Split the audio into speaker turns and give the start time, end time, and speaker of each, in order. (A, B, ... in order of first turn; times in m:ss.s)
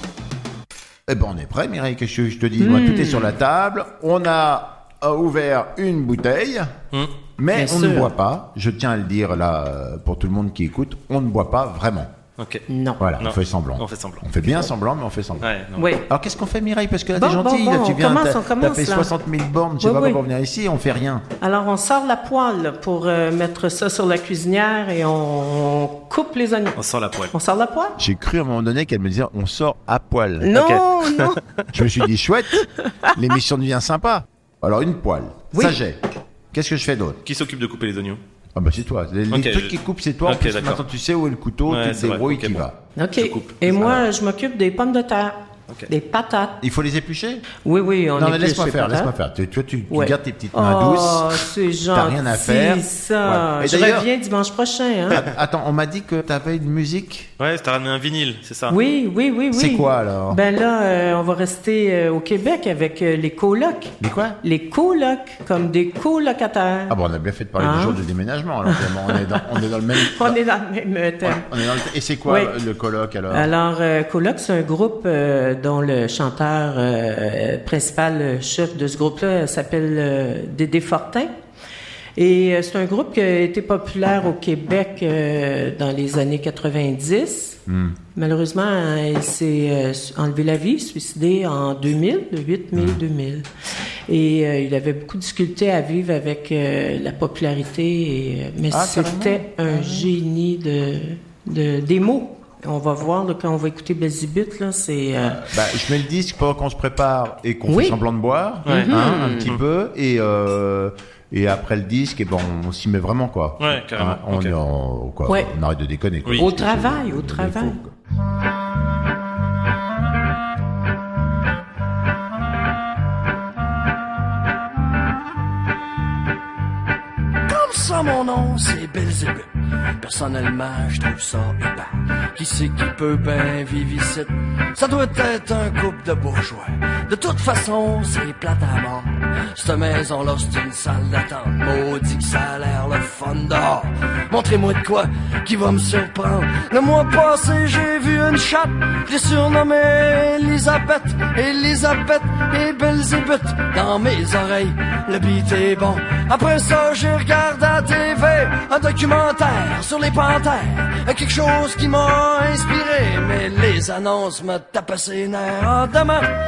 0:01.1-0:06.7 A
0:02.6-0:03.3 B
0:07.4-0:12.1 A
0:07.5-0:08.1 B
0:12.4-0:12.6 C
0:12.7-0:13.0 B
0:13.0-0:15.5 A
0:13.2-0:14.2 C
0:15.4-0:15.9 C
0:15.8-0:16.1 B
0:16.1-0:21.2 A
0:17.1-0:19.1 B
0:19.8-0:20.2 B
0:21.4-0:26.8 B
0:26.8-0:27.3 C
0:27.3-0:28.0 B
0:28.0-0:30.6 A
0:30.4-0:31.4 B
0:30.5-0:31.6 C
0:31.7-0:36.0 A
0:32.6-0:33.1 B
0:36.5-0:37.2 A
0:37.2-0:38.2 C
0:38.6-0:42.8 A
0:39.3-0:40.8 C
0:41.7-0:42.6 C
0:43.0-0:46.6 B
0:43.2-0:44.0 C
0:46.6-0:47.4 A
0:47.6-0:49.1 B
0:48.2-0:54.1 A
0:49.9-0:55.2 B
0:55.1-0:57.3 A
0:57.4-0:58.7 C
0:58.7-1:07.0 B
0:59.5-1:00.4 A
1:04.0-1:04.4 A
1:06.9-1:10.4 A
1:07.6-1:08.0 B
1:08.6-1:11.6 B
1:11.2-1:13.5 A
1:12.3-1:12.5 B
1:13.3-1:21.3 B
1:22.2-1:27.6 B
1:27.7-1:28.0 A
1:28.1-1:33.5 B
1:34.1-1:45.4 B
1:38.7-1:40.1 A
1:45.2-1:57.9 A
1:47.7-1:48.0 B
1:48.6-1:49.5 B
1:48.6-1:49.6 C
1:53.6-1:54.5 C
1:55.3-1:55.5 B
1:56.3-1:57.8 B
2:07.5-2:46.2 D